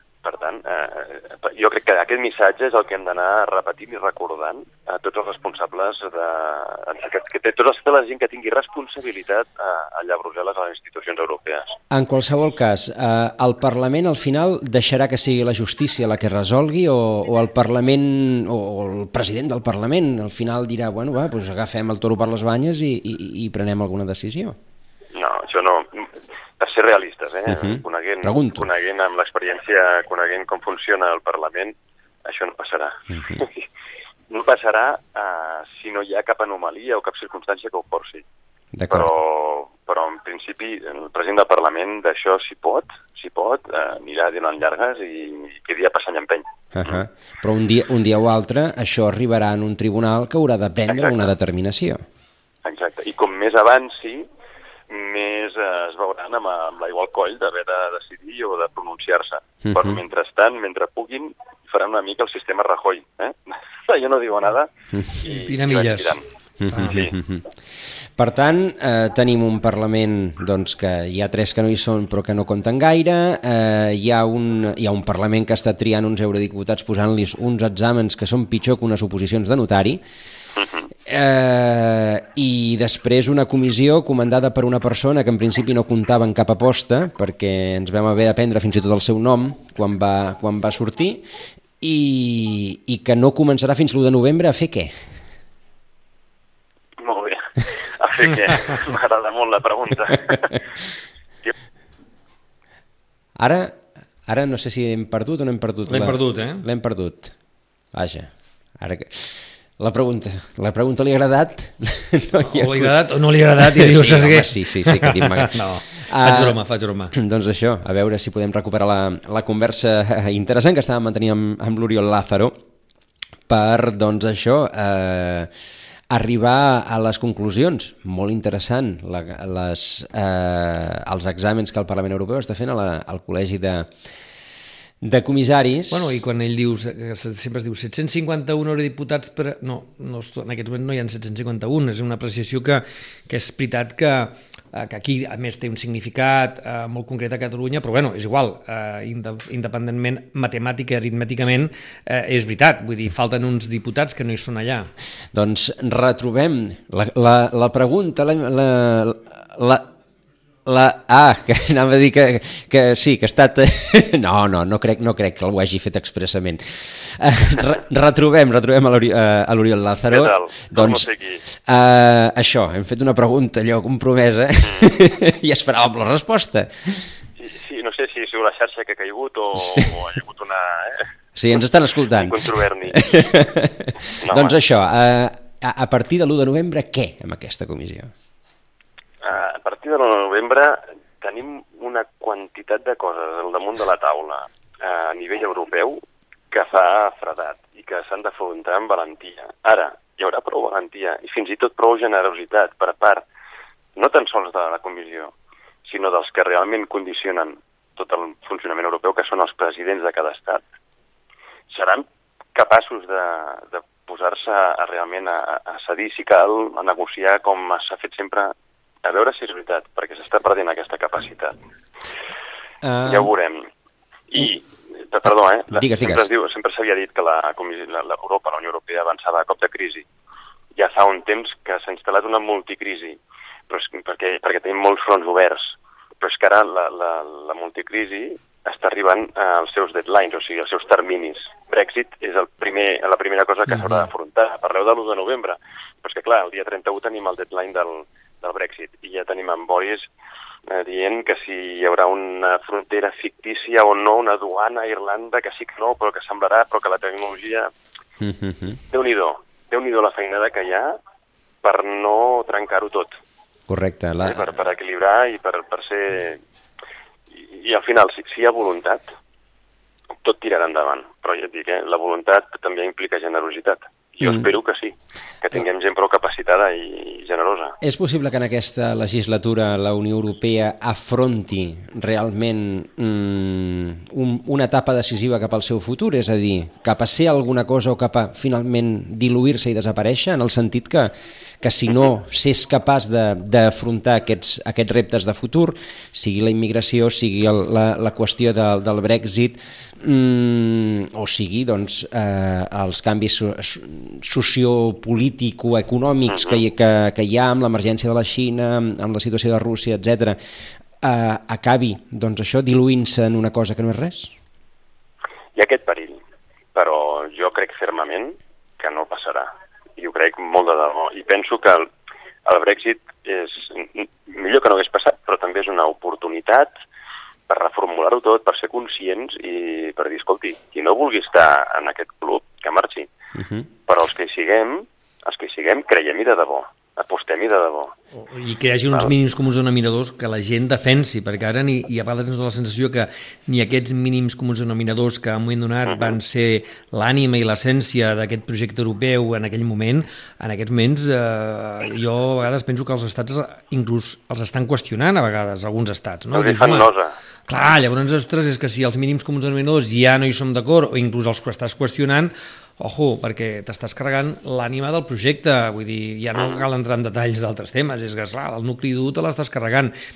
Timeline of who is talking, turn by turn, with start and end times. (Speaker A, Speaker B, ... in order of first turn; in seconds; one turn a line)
Speaker A: 0.2-11.8
Speaker B: 11.9-24.6
Speaker A: 25.1-33.6
Speaker B: 27.5-28.7
Speaker B: 33.1-33.4
Speaker A: 34.3-38.2
Speaker B: 38.8-39.1
Speaker A: 38.9-47.0
Speaker B: 46.7-52.0
Speaker A: 50.9-51.3
Speaker A: 52.6-54.3
Speaker A: 54.9-66.2
Speaker B: 59.7-60.0
Speaker B: 64.9-65.2
Speaker C: 65.2-66.2
Speaker B: 66.6-67.5
Speaker C: 66.7-67.0
Speaker A: 66.8-67.2
Speaker B: 68.2-80.0
Speaker A: 80.5-80.9
Speaker B: 81.0-91.2
Speaker B: 91.8-94.9
Speaker A: 97.0-100.6
Speaker B: 103.4-107.3
Speaker C: 105.9-106.6
Speaker B: 107.9-112.9
Speaker C: 112.4-117.1
Speaker B: 113.6-116.6
Speaker B: 117.1-122.5
Speaker B: 123.5-125.5
Speaker B: 126.1-133.9
Speaker B: 135.0-136.1
Speaker C: 135.9-154.9
Speaker B: 155.3-159.8
Speaker B: 160.6-177.1
Speaker A: 170.1-171.4
Speaker A: 177.4-181.1
Speaker B: 179.6-179.9
Speaker B: 181.3-188.1
Speaker A: 182.1-183.1
Speaker A: 184.2-184.6
Speaker A: 189.2-203.2
Speaker A: 203.9-210.6
Speaker A: 211.7-221.5
Speaker B: 222.8-223.3
Speaker A: 223.0-223.7
Speaker A: 224.3-230.1
Speaker B: 225.7-226.3
Speaker A: 230.7-250.1
Speaker A: 250.7-257.7
Speaker B: 258.2-258.8
Speaker A: 258.9-261.0
Speaker A: 261.6-263.1
Speaker B: 263.7-264.5
Speaker A: 264.2-266.4
Speaker A: 267.3-269.1
Speaker A: 270.2-277.8
Speaker B: 274.2-274.5
Speaker B: 277.8-310.4
Speaker A: 306.3-306.6
Speaker B: 311.0-314.3
Speaker A: 315.5-316.2
Speaker A: 316.7-321.9
Speaker A: 322.4-326.7
Speaker A: 327.5-333.1
Speaker B: 333.3-333.7
Speaker A: 333.9-337.9
Speaker C: 338.2-356.9
Speaker A: 345.9-346.1
Speaker A: 356.3-357.1
Speaker C: 357.5-369.9
Speaker A: 366.4-366.6